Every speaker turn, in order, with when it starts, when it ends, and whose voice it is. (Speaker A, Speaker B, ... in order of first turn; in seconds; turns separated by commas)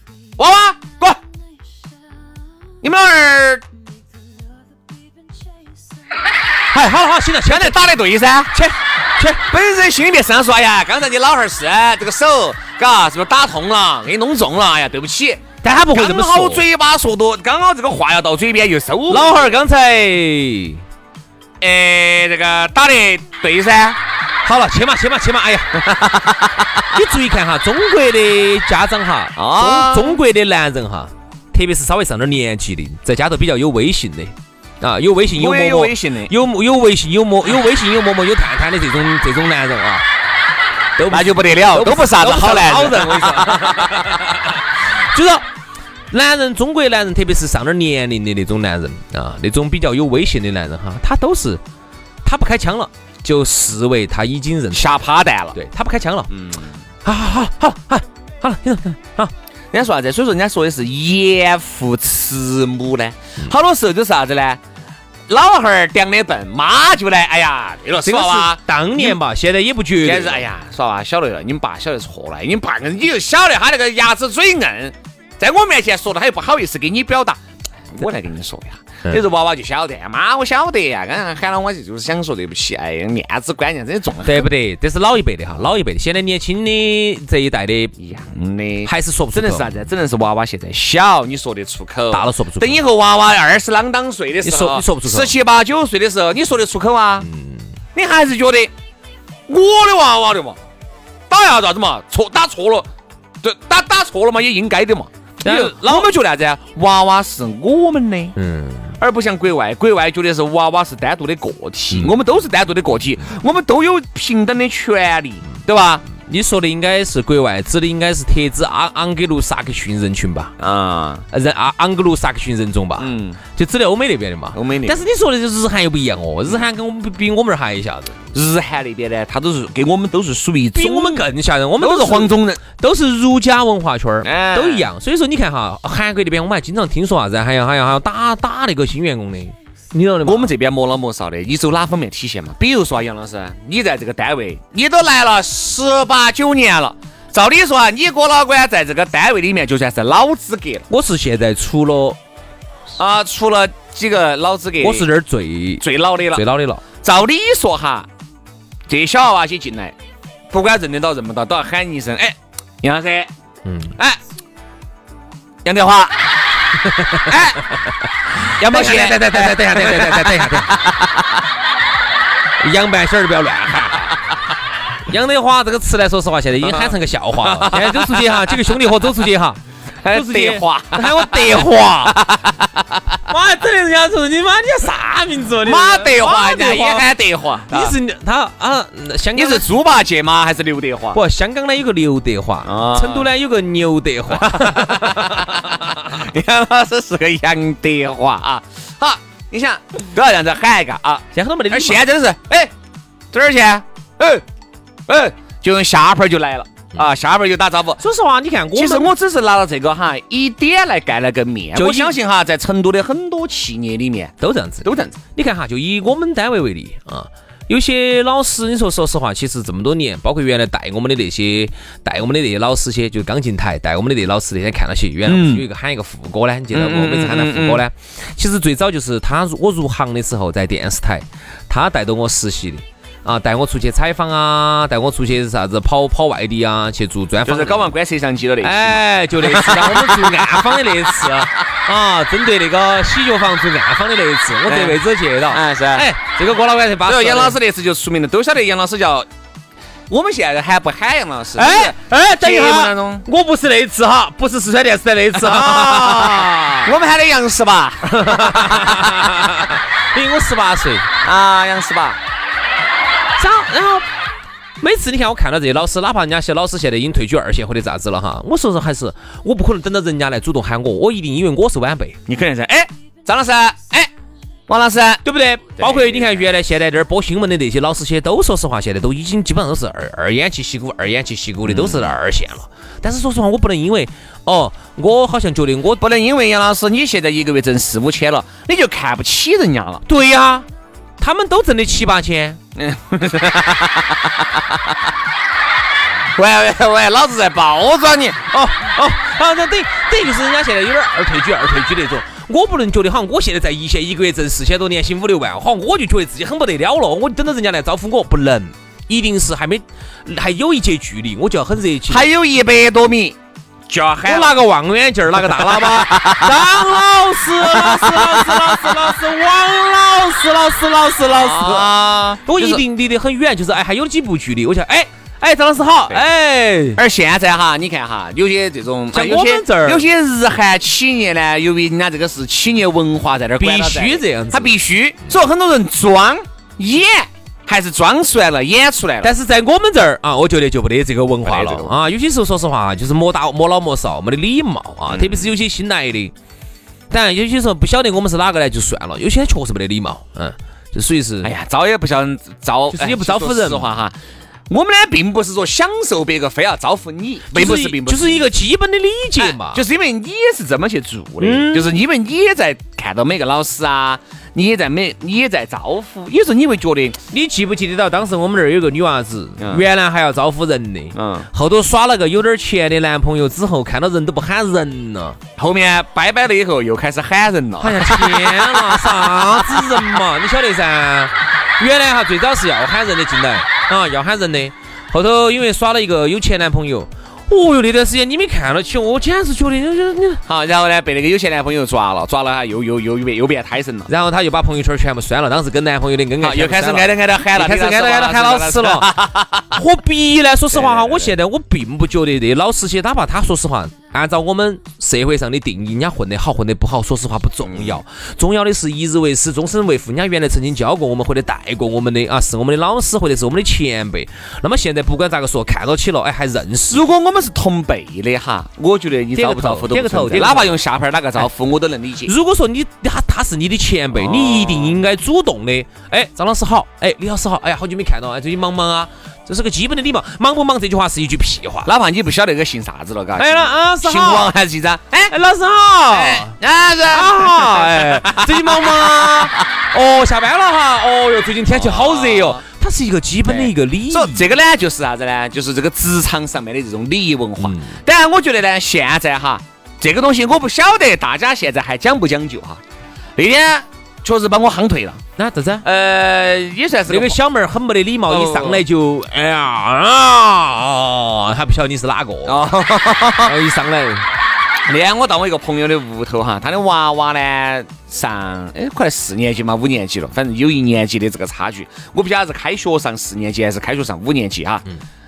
Speaker A: 0.4-1.2, Speaker A: 2.8-3.6, Speaker B: 6.7-7.9, Speaker A: 7.5-8.6, Speaker B: 8.6-9.4, Speaker A: 9.3-19.5, Speaker B: 15.6-16.6, Speaker B: 19.1-20.8, Speaker A: 21.6-24.0, Speaker B: 24.4-25.8, Speaker A: 25.8-26.9, Speaker B: 26.9-40.0, Speaker A: 29.4-30.2, Speaker A: 35.3-36.3, Speaker B: 41.0-44.6, Speaker A: 41.1-44.1, Speaker B: 45.1-45.5, Speaker B: 46.1-51.6, Speaker B: 52.2-55.0, Speaker A: 54.7-55.6, Speaker B: 55.5-56.3, Speaker A: 56.3-56.7, Speaker B: 57.0-59.3, Speaker A: 59.7-64.6, Speaker A: 65.3-69.2, Speaker B: 68.0-70.5, Speaker A: 70.0-77.4, Speaker A: 77.9-84.5, Speaker B: 84.2-88.0, Speaker A: 88.0-97.3, Speaker B: 88.8-89.8, Speaker B: 92.1-92.8, Speaker B: 94.4-95.3, Speaker B: 97.2-97.6, Speaker A: 98.0-98.7, Speaker A: 99.5-100.6, Speaker A: 101.3-102.9, Speaker A: 103.4-108.4, Speaker B: 105.4-106.1, Speaker B: 108.4-108.9, Speaker A: 109.0-116.1, Speaker B: 116.1-120.5, Speaker A: 120.6-121.2, Speaker B: 121.3-128.2, Speaker A: 123.0-123.4, Speaker A: 124.5-125.0, Speaker A: 128.3-131.3, Speaker B: 130.8-140.5, Speaker A: 131.8-132.6, Speaker A: 134.2-134.9, Speaker A: 140.2-150.9, Speaker B: 150.9-152.2, Speaker A: 153.0-155.1, Speaker B: 154.8-156.8, Speaker A: 155.8-156.4, Speaker A: 157.0-158.1, Speaker A: 158.9-159.9, Speaker A: 160.5-163.3, Speaker B: 163.7-163.9, Speaker A: 165.7-166.3, Speaker B: 166.9-167.3, Speaker A: 167.3-167.7, Speaker A: 168.6-171.4, Speaker B: 168.6-170.8, Speaker B: 172.6-174.2, Speaker B: 175.1-179.6, Speaker A: 176.6-178.7, Speaker A: 180.0-183.2, Speaker B: 180.1-182.2, Speaker B: 183.3-187.1, Speaker A: 185.6-188.0, Speaker B: 187.7-189.7, Speaker A: 189.3-191.2, Speaker B: 191.1-195.4, Speaker A: 192.7-193.3, Speaker A: 194.3-202.7, Speaker B: 201.3-202.1, Speaker A: 203.3-204.4, Speaker A: 205.1-208.0, Speaker B: 208.0-209.1, Speaker A: 208.8-215.2, Speaker B: 211.8-212.2, Speaker B: 214.4-237.9, Speaker A: 225.3-225.7, Speaker A: 226.7-227.8, Speaker A: 237.4-241.5, Speaker B: 238.6-247.6, Speaker A: 244.7-246.1, Speaker A: 247.1-249.3, Speaker A: 250.1-253.3, Speaker B: 251.6-256.9, Speaker A: 255.3-259.2, Speaker B: 258.1-261.1, Speaker A: 261.2-262.2, Speaker B: 263.4-264.1, Speaker B: 264.8-272.2, Speaker A: 272.3-274.1, Speaker A: 274.7-275.2, Speaker B: 275.2-286.1, Speaker A: 275.8-276.4, Speaker A: 281.6-282.1, Speaker A: 286.0-290.0, Speaker B: 290.1-290.7, Speaker B: 291.2-292.6, Speaker A: 292.8-294.8, Speaker A: 296.4-298.5, Speaker B: 298.5-312.3, Speaker A: 312.1-313.4, Speaker A: 313.9-314.6, Speaker B: 314.2-321.9, Speaker A: 315.4-316.8, Speaker A: 317.6-319.1, Speaker A: 321.3-322.8, Speaker B: 322.5-327.0, Speaker A: 327.0-339.3, Speaker B: 329.1-330.1, Speaker B: 333.6-334.8, Speaker B: 339.2-346.3, Speaker A: 341.4-341.9, Speaker A: 345.1-345.5, Speaker B: 347.1-351.5, Speaker A: 351.4-354.1, Speaker B: 352.9-353.9, Speaker A: 354.7-358.5, Speaker B: 357.5-359.8, Speaker A: 359.4-367.2, Speaker B: 361.4-361.9, Speaker B: 367.3-375.4, Speaker A: 371.1-371.5, Speaker A: 375.6-378.8, Speaker B: 377.8-390.4, Speaker A: 390.5-394.1, Speaker B: 394.1-399.1, Speaker A: 396.4-399.8, Speaker B: 399.7-417.0, Speaker A: 400.7-401.4, Speaker A: 407.6-408.0, Speaker A: 416.9-422.3, Speaker B: 419.4-420.8, Speaker B: 422.3-431.9, Speaker A: 424.1-425.0, Speaker A: 431.9-435.4, Speaker B: 433.4-434.5, Speaker B: 435.3-436.5, Speaker A: 436.1-439.7, Speaker B: 437.1-444.4, Speaker A: 441.7-442.6, Speaker A: 443.5-452.8, Speaker B: 447.6-447.9, Speaker A: 453.4-455.2, Speaker B: 455.4-455.9, Speaker A: 455.8-457.4, Speaker B: 457.1-462.6, Speaker A: 458.3-458.8, Speaker A: 462.4-463.6, Speaker B: 463.4-464.3, Speaker A: 464.9-474.9